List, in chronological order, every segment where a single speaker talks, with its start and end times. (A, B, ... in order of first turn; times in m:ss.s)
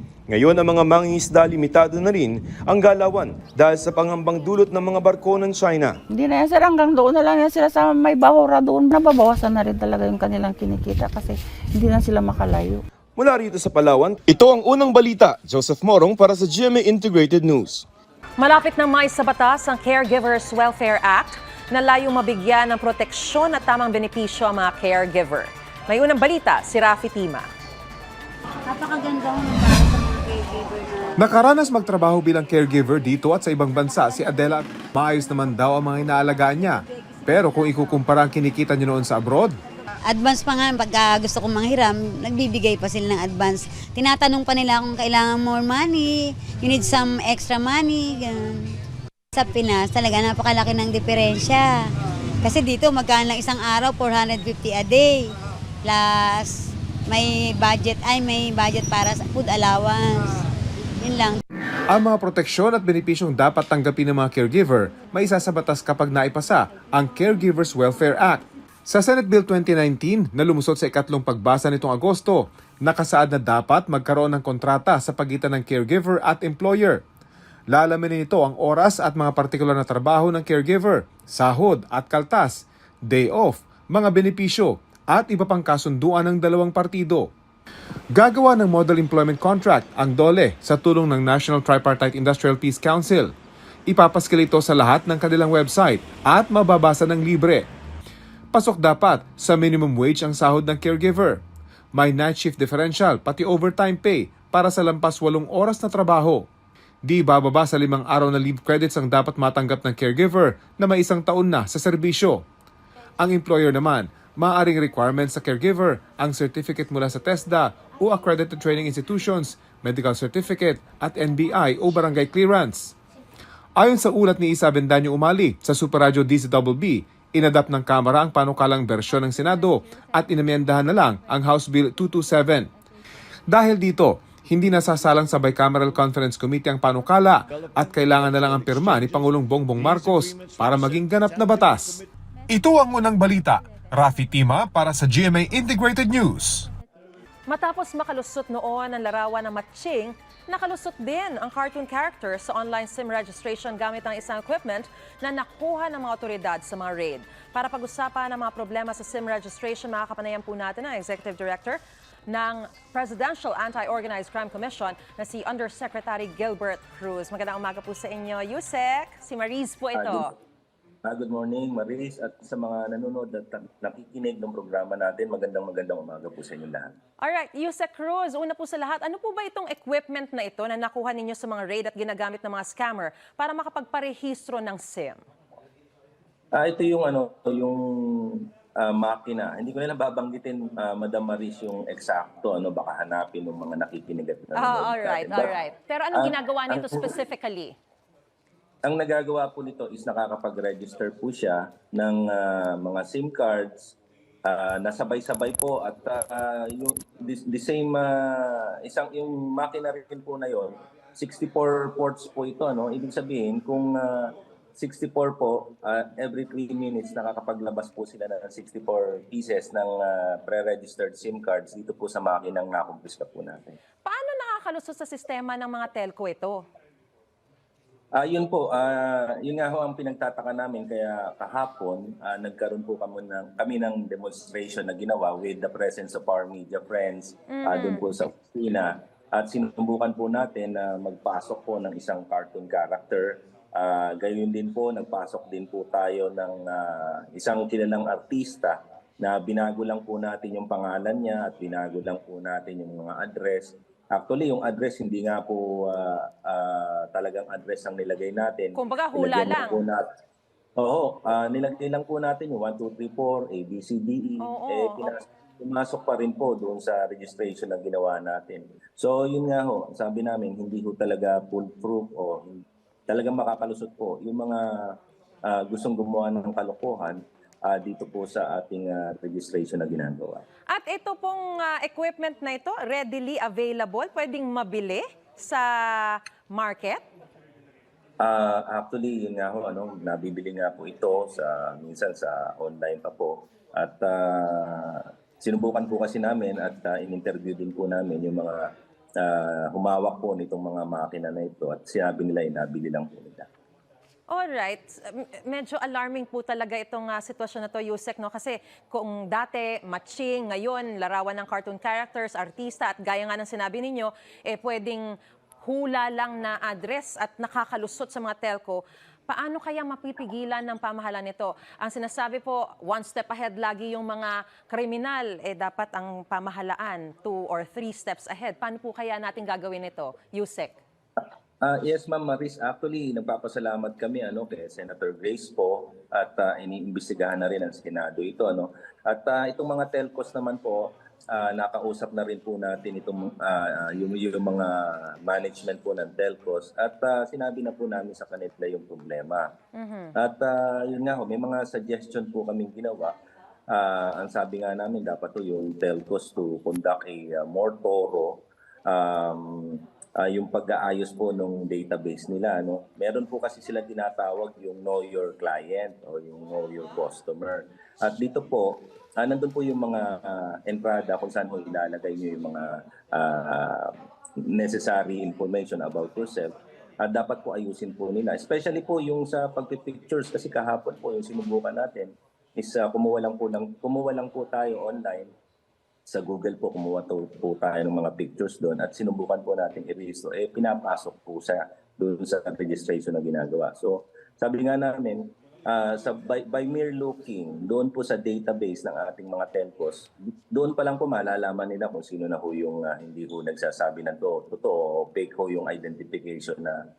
0:00.3-0:06.0 A
0:06.1-0:12.8 B
0:13.2-0:17.8 A
0:18.4-0:27.5 C
0:28.7-0:31.1 D
0:31.2-0:39.6 E
0:40.1-0:48.6 D
0:49.3-0:51.7 D
0:52.4-0:55.2 D
0:55.8-1:00.3 D
1:01.0-1:01.4 D
1:01.9-1:17.0 E
1:17.7-1:27.3 E
1:28.1-1:33.3 E
1:33.9-1:37.7 E
1:38.5-1:41.4 E
1:41.9-1:46.5 E
1:47.0-1:52.4 E
1:53.2-2:02.9 E
2:03.8-2:12.7 E
2:13.5-2:26.7 E
2:27.5-2:50.3 C
2:50.0-2:50.3 F
2:51.0-2:56.9 F
2:57.2-3:05.2 C
3:06.5-3:15.6 F
3:14.6-3:17.7 C
3:16.2-3:17.1 F
3:18.8-3:43.8 F
3:44.0-3:46.6 C
3:48.2-4:20.0 F
3:57.5-3:58.0 C
4:18.8-4:19.8 C
4:20.8-4:34.9 F
4:24.4-4:25.1 C
4:35.4-4:40.4 F
4:40.7-4:47.0 C
4:48.2-5:03.5 F
5:04.3-5:30.8 C
5:31.6-5:49.5 F
5:49.8-5:50.1 C
5:50.2-5:53.2 F
5:53.7-6:14.0 F
6:14.5-6:25.3 F
6:26.1-6:46.8 F